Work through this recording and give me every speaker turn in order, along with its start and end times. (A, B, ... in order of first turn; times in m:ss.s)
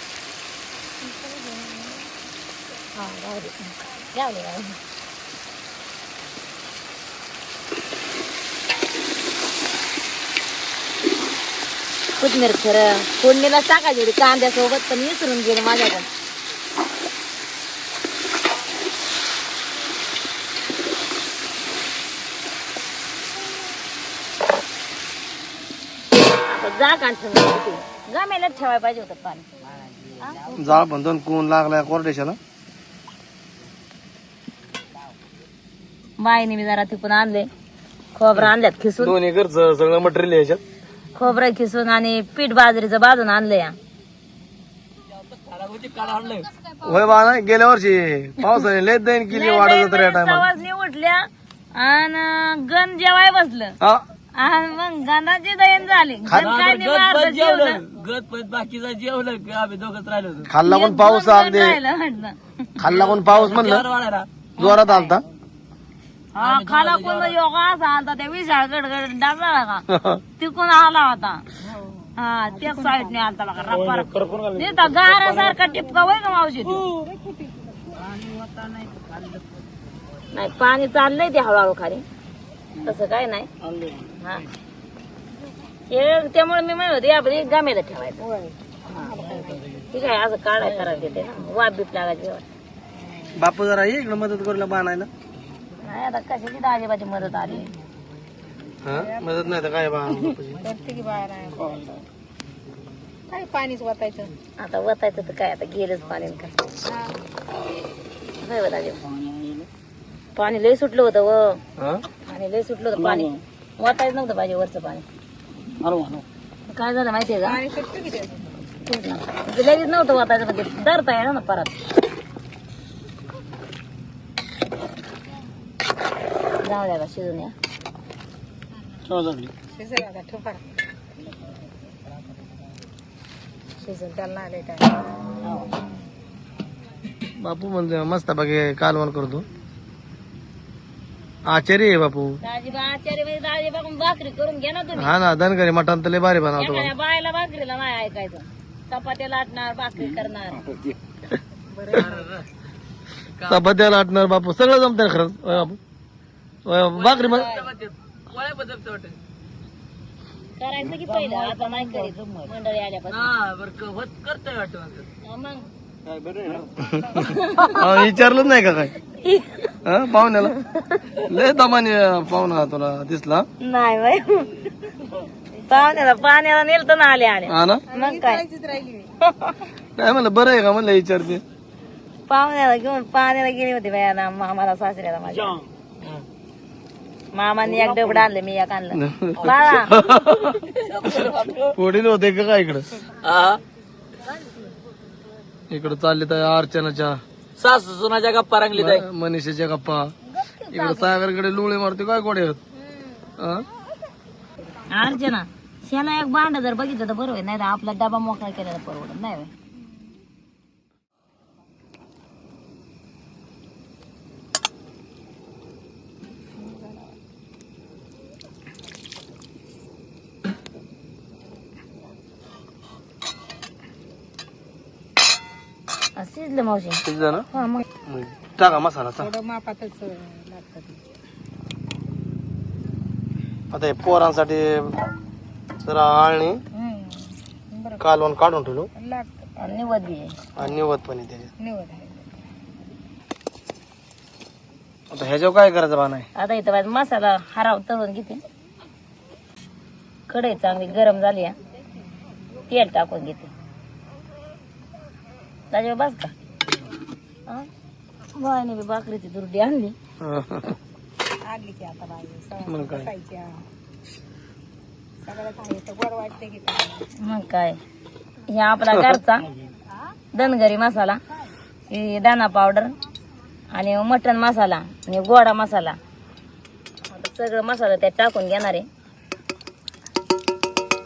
0:01.1-0:02.0 A
0:02.9-0:04.8 B
0:12.2-0:16.1 B
0:26.5-0:29.5 B
0:29.9-0:30.4 C
0:30.2-0:30.8 B
0:30.5-0:32.4 D
0:36.2-0:37.5 B
0:38.1-0:39.1 B
0:38.3-0:40.6 D
0:41.1-0:43.8 B
0:45.1-0:46.6 C
0:46.8-0:50.5 D
0:49.3-0:53.8 B
0:54.4-0:57.8 B
0:56.3-1:00.5 C
1:00.5-1:01.8 D
1:00.6-1:02.4 B
1:02.8-1:03.9 D
1:02.8-1:04.3 C
1:04.6-1:05.2 B
1:04.6-1:05.2 D
1:06.3-1:07.3 C
1:06.4-1:09.8 B
1:09.9-1:10.2 D
1:10.4-1:11.4 B
1:11.6-1:13.3 A
1:12.2-1:16.8 B
1:14.0-1:14.6 C
1:16.9-1:17.8 A
1:18.0-1:19.4 C
1:20.3-1:22.0 B
1:22.8-1:23.5 B
1:23.6-1:24.0 C
1:24.2-1:24.4 B
1:25.9-1:28.2 B
1:28.2-1:29.7 A
1:29.9-1:32.4 B
1:33.0-1:33.3 A
1:33.3-1:35.1 D
1:35.8-1:37.7 B
1:38.8-1:40.6 D
1:38.9-1:39.4 A
1:40.6-1:42.0 A
1:43.3-1:44.3 A
1:44.6-1:46.6 B
1:46.8-1:47.1 A
1:48.4-1:49.0 B
1:50.3-1:51.6 B
1:51.8-1:52.0 D
1:52.2-1:55.0 B
1:56.7-1:57.6 B
1:57.4-1:58.6 A
1:58.8-2:01.7 B
2:06.6-2:07.5 B
2:09.7-2:10.6 A
2:13.8-2:15.0 A
2:15.4-2:15.7 B
2:17.4-2:19.4 D
2:21.4-2:22.4 D
2:22.4-2:25.1 B
2:25.0-2:26.9 D
2:26.6-2:30.7 B
2:31.7-2:32.3 A
2:31.9-2:32.5 C
2:33.3-2:33.6 C
2:33.4-2:35.8 D
2:36.6-2:37.6 D
2:36.9-2:39.2 C
2:37.2-2:37.7 B
2:40.6-2:43.3 B
2:40.9-2:42.5 C
2:43.1-2:45.1 C
2:45.2-2:45.7 B
2:46.1-2:46.9 C
2:46.8-2:47.2 D
2:47.2-2:47.8 B
2:47.8-2:48.9 D
2:49.2-2:49.7 B
2:49.8-2:50.5 D
2:50.6-2:51.0 B
2:51.2-2:53.5 D
2:53.6-2:54.9 B
2:55.7-2:58.4 B
2:57.5-2:57.8 D
2:57.9-2:59.1 A
2:59.3-2:59.6 B
3:00.0-3:01.4 D
3:02.3-3:05.6 B
3:07.3-3:09.9 B
3:07.6-3:08.2 C
3:09.0-3:10.5 D
3:09.4-3:11.8 C
3:11.7-3:12.9 D
3:13.2-3:13.6 C
3:15.7-3:17.2 D
3:17.6-3:19.0 C
3:18.8-3:20.1 D
3:20.3-3:21.1 B
3:20.7-3:22.6 D
3:23.4-3:23.7 D
3:24.9-3:29.5 B
3:36.6-3:37.1 A
3:46.2-3:47.0 B
3:47.0-3:47.5 D
3:47.6-3:47.8 B
3:48.0-3:49.3 D
3:49.2-3:51.0 A
3:53.7-3:54.9 D
3:55.8-3:56.6 D
3:56.7-3:58.0 A
3:58.0-3:58.9 D
3:59.0-3:59.4 A
3:59.6-4:00.3 B
4:00.6-4:01.5 D
4:01.6-4:02.3 A
4:05.1-4:06.3 D
4:06.4-4:08.4 B
4:10.3-4:11.5 B
4:12.7-4:13.5 B
4:15.7-4:16.3 B
4:18.3-4:19.9 B
4:20.2-4:20.8 D
4:21.4-4:23.6 A
4:22.6-4:23.1 D
4:25.2-4:27.0 A
4:27.2-4:27.8 B
4:28.5-4:29.5 B
4:28.9-4:29.2 D
4:30.3-4:31.2 B
4:31.9-4:32.9 B
4:33.7-4:36.0 B
4:37.1-4:38.9 B